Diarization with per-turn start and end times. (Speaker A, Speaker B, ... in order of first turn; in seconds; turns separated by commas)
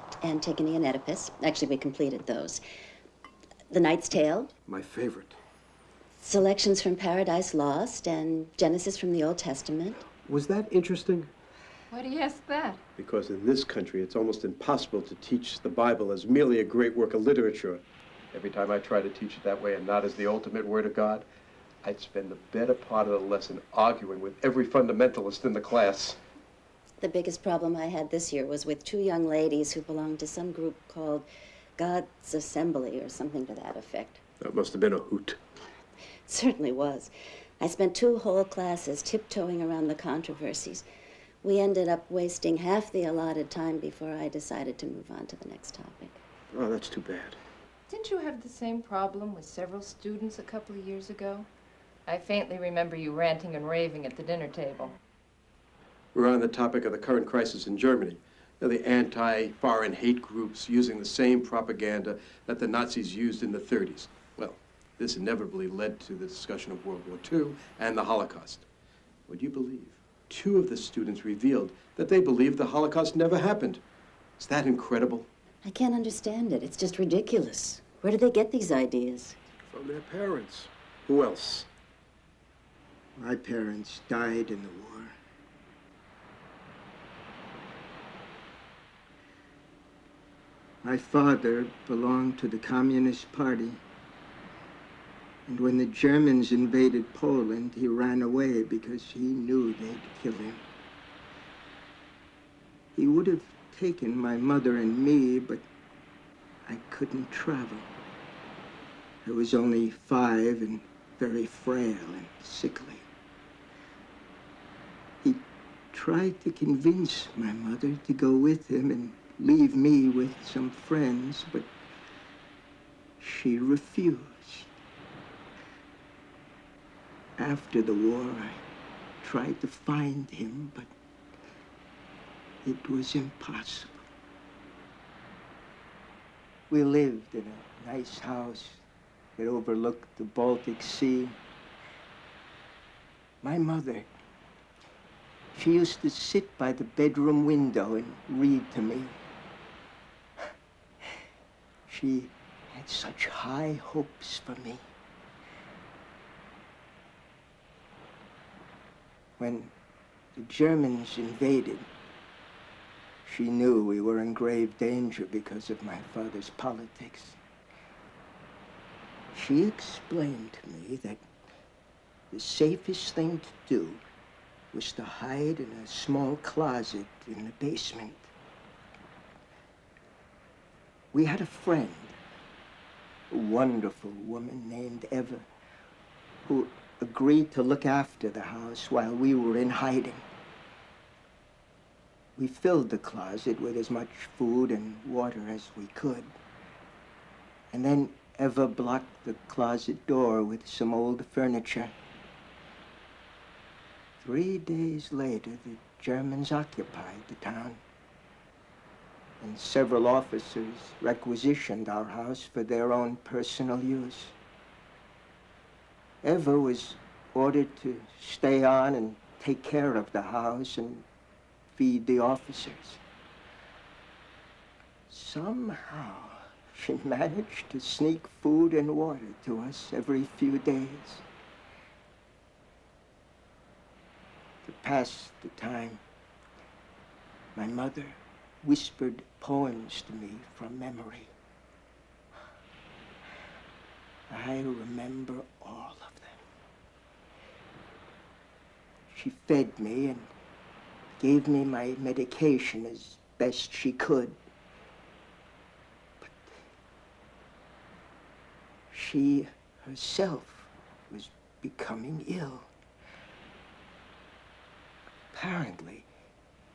Speaker A: 0.2-2.6, Speaker A: 3.7-4.5, Speaker B: 4.7-5.3, Speaker A: 6.2-10.0, Speaker B: 10.2-11.3, Speaker C: 11.9-12.8, Speaker B: 13.0-21.3, Speaker B: 21.8-26.2, Speaker A: 27.0-34.2, Speaker B: 34.4-35.4, Speaker A: 36.2-37.1, Speaker A: 37.6-40.8, Speaker A: 41.4-46.2, Speaker B: 46.5-47.4, Speaker C: 47.9-51.5, Speaker C: 52.0-55.0, Speaker B: 56.1-68.7, Speaker B: 69.3-73.8, Speaker B: 74.4-75.3, Speaker A: 75.6-79.4, Speaker B: 79.7-81.7, Speaker D: 83.2-85.1, Speaker D: 90.8-93.8, Speaker D: 95.5-100.6, Speaker D: 102.9-105.7, Speaker D: 106.7-107.9, Speaker D: 109.2-113.1, Speaker D: 115.2-121.7, Speaker D: 123.2-124.7, Speaker D: 127.4-128.6, Speaker D: 129.2-130.9, Speaker D: 132.6-134.0, Speaker D: 136.7-138.8, Speaker D: 139.4-141.4, Speaker D: 143.4-144.1, Speaker D: 145.5-149.2, Speaker D: 151.9-154.8, Speaker D: 159.4-159.7, Speaker D: 160.3-161.9, Speaker D: 163.2-167.4, Speaker D: 169.3-171.2, Speaker D: 172.3-174.0, Speaker D: 174.7-178.3, Speaker D: 181.1-182.2, Speaker D: 183.3-185.5, Speaker D: 186.4-190.2, Speaker D: 192.3-196.3, Speaker D: 197.7-201.9, Speaker D: 204.2-207.8, Speaker D: 209.4-214.3, Speaker D: 216.2-221.1, Speaker D: 221.7-223.0, Speaker D: 225.1-231.2, Speaker D: 234.6-236.0, Speaker D: 237.5-241.3, Speaker D: 244.3-246.4, Speaker D: 249.1-250.3, Speaker D: 251.1-254.4, Speaker D: 258.9-262.7, Speaker D: 265.3-266.1